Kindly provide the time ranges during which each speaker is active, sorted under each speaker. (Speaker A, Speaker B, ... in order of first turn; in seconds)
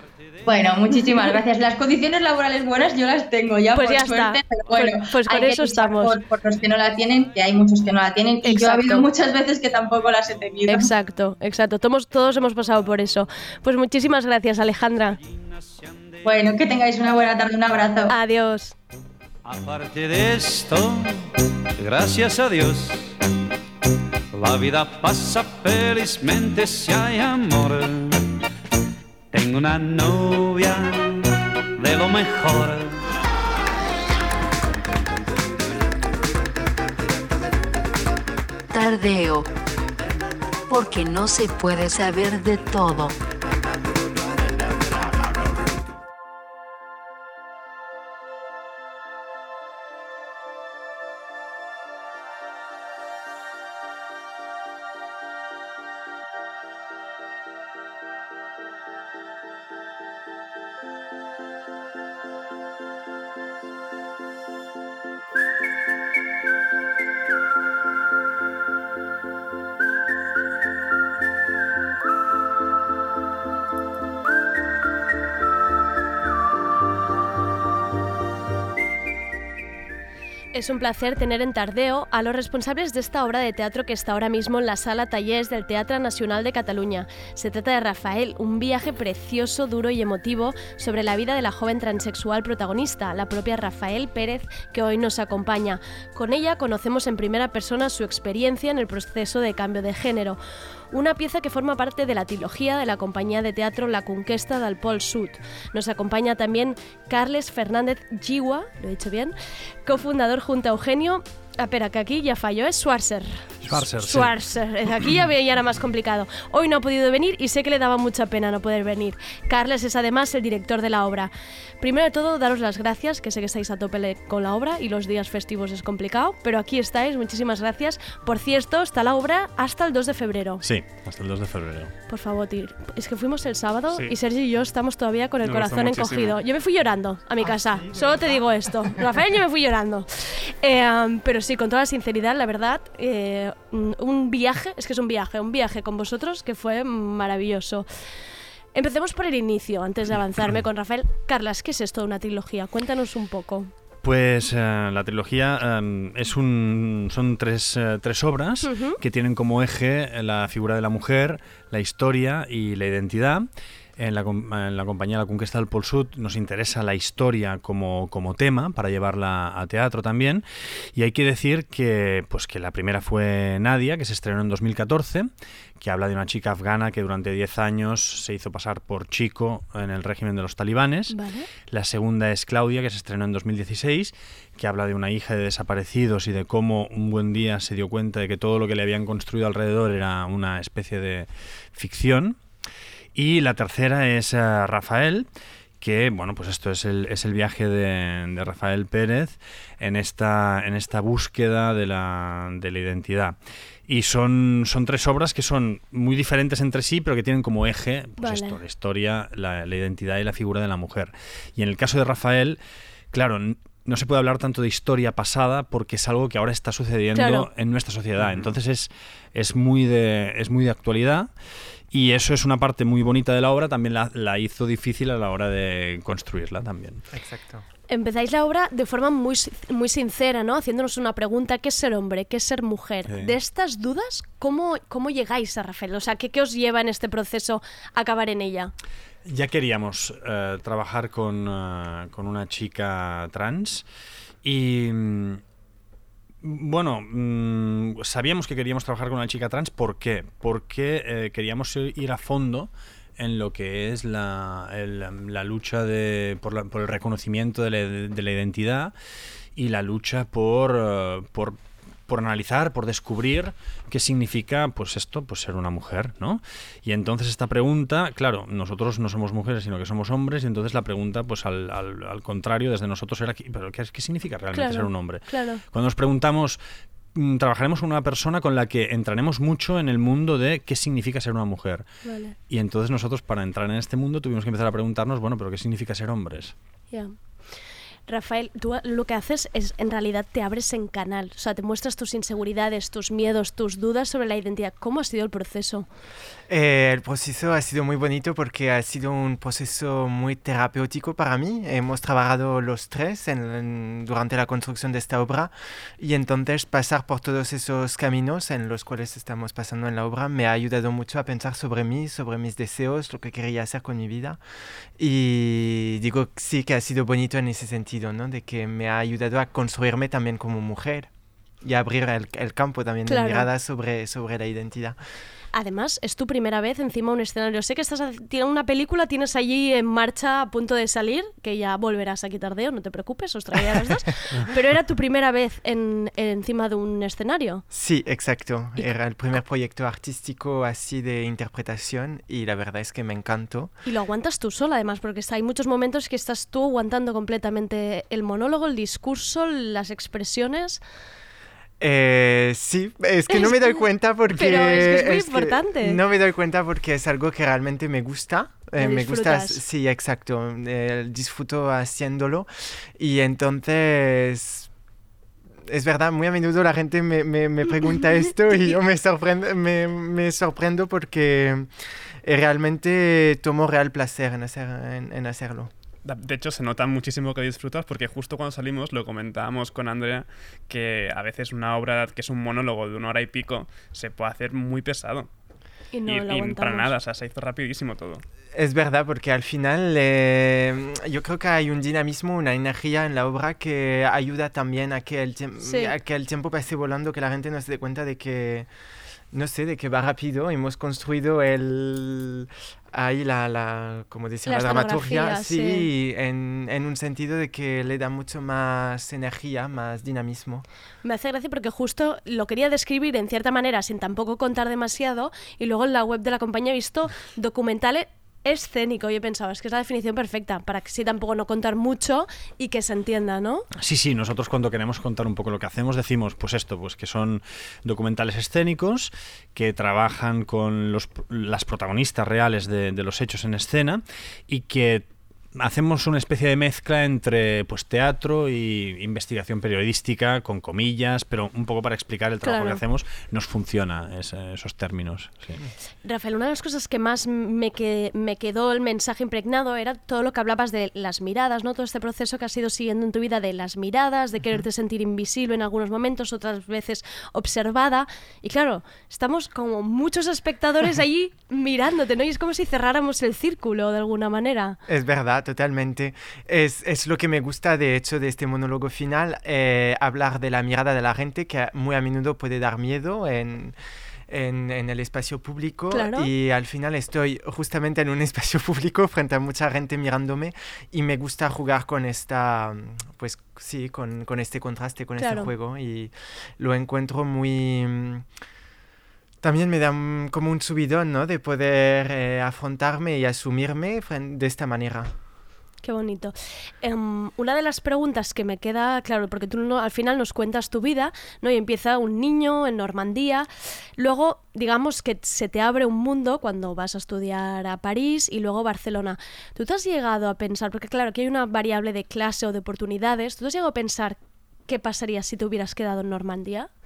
Speaker A: 0.4-10.9, 16.2-18.1
Speaker B: 0.9-1.3, 3.7-6.2, 8.4-9.1, 10.7-15.2, 18.1-18.8, 80.5-100.4, 100.9-109.3, 109.8-130.6, 132.1-147.8, 148.7-153.7, 158.6-159.0, 181.1-181.5, 208.2-208.6, 217.1-217.5, 227.9-238.7, 274.5-275.6, 282.0-282.3, 288.1-295.9, 323.1-323.5, 325.5-337.6, 343.8-350.8, 354.3-356.0, 358.8-359.6, 385.9-386.9, 395.6-395.9, 404.4-405.9, 411.0-423.6, 442.4-442.8, 446.0-464.8, 475.9-476.3, 485.2-485.5, 495.8-503.5, 504.0-514.2, 514.7-516.7
Speaker C: 15.3-16.1, 19.4-23.1, 24.3-28.3, 29.3-33.0
Speaker D: 38.7-39.5, 40.7-43.1
Speaker E: 113.6-114.4, 130.6-131.9, 154.0-163.4, 164.0-192.4, 193.1-195.3, 195.8-203.3, 203.9-212.6, 213.1-221.3, 221.9-227.0, 233.1-233.3, 239.2-243.8, 244.4-245.4, 246.4-258.9, 259.6-276.6, 277.1-281.8, 282.5-286.5, 423.8-435.1, 435.6-445.6
Speaker F: 135.4-136.4, 376.1-385.3, 386.1-388.2
Speaker G: 137.4-139.0, 227.1-227.6, 296.5-314.4, 315.0-321.1, 321.6-325.0, 337.7-343.7, 351.8-364.7, 365.7-371.7, 372.2-375.7, 388.5-398.7, 399.3-410.6, 464.9-473.8, 474.3-488.2, 489.4-495.1